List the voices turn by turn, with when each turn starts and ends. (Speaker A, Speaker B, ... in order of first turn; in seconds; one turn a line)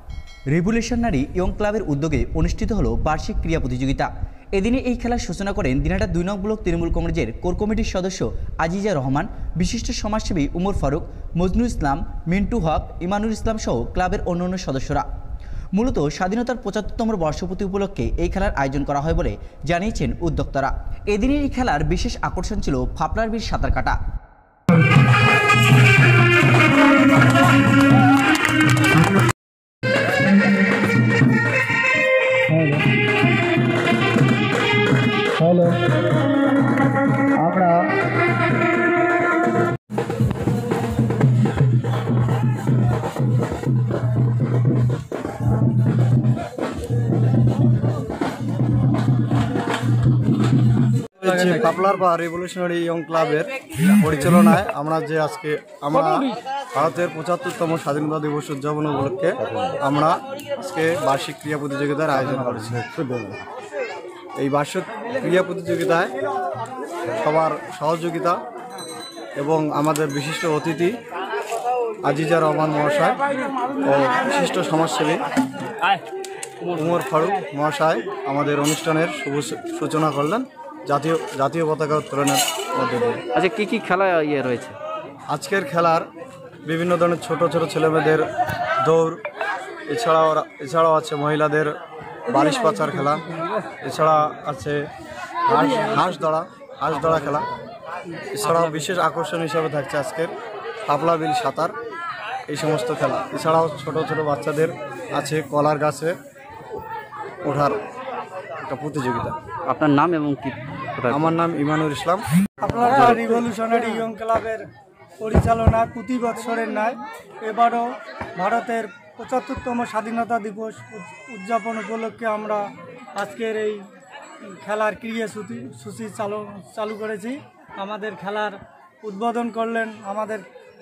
Speaker A: 0.5-15.1
Speaker A: 15.8-24.0
Speaker B: 32.5-32.8
Speaker B: 35.4-35.8
Speaker B: 37.4-37.9
Speaker B: 51.2-63.4
Speaker B: 64.4-66.1
Speaker B: 67.2-68.4
Speaker B: 69.4-71.0
Speaker B: 72.0-73.2
Speaker B: 73.8-75.3
Speaker B: 76.7-83.2
Speaker C: 83.3-84.8
Speaker B: 85.3-86.1
Speaker B: 86.7-88.3
Speaker B: 88.8-89.2
Speaker B: 89.9-91.7
Speaker B: 92.3-94.8
Speaker B: 95.5-97.5
Speaker B: 98.3-100.3
Speaker B: 100.9-101.7
Speaker B: 102.5-106.2
Speaker B: 107.4-107.8
Speaker B: 108.7-109.4
Speaker C: 109.7-111.4
Speaker B: 111.1-113.2
Speaker D: 112.6-114.7
Speaker C: 113.0-113.4
Speaker D: 115.2-123.8
Speaker D: 124.4-130.4